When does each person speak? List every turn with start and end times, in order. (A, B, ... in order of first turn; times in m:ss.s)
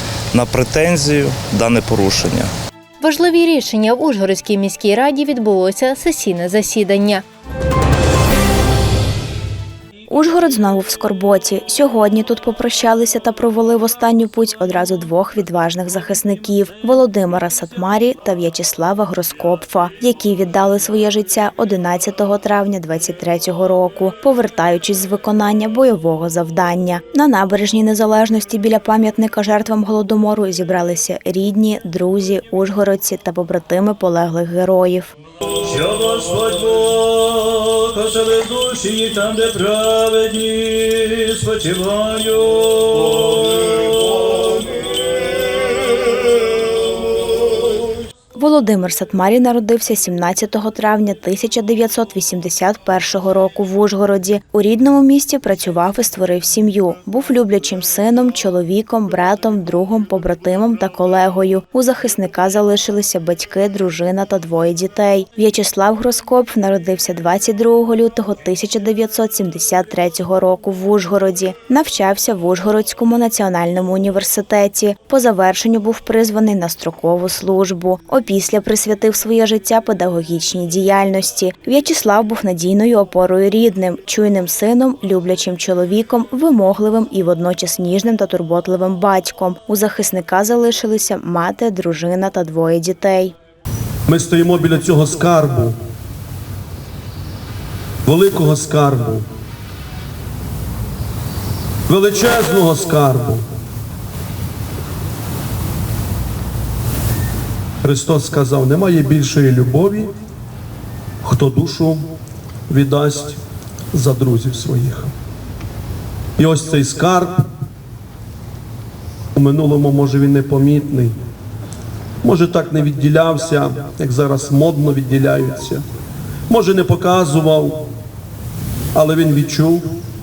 0:00.3-0:02.5 A
0:03.0-0:07.2 B
0:10.1-0:35.1 C
0:35.6-0:43.2 D
0:48.4-1:33.3 C
1:34.1-1:35.8 E
1:38.0-1:39.2 E
1:41.9-1:43.5 E
1:47.8-1:50.1 E
1:51.2-1:52.0 E
1:52.7-1:53.4 E
1:53.9-1:55.1 E
1:56.4-1:57.4 E
1:59.3-2:01.1 E
2:02.2-2:05.8 E
2:06.5-2:07.9 E
2:08.9-2:10.0 E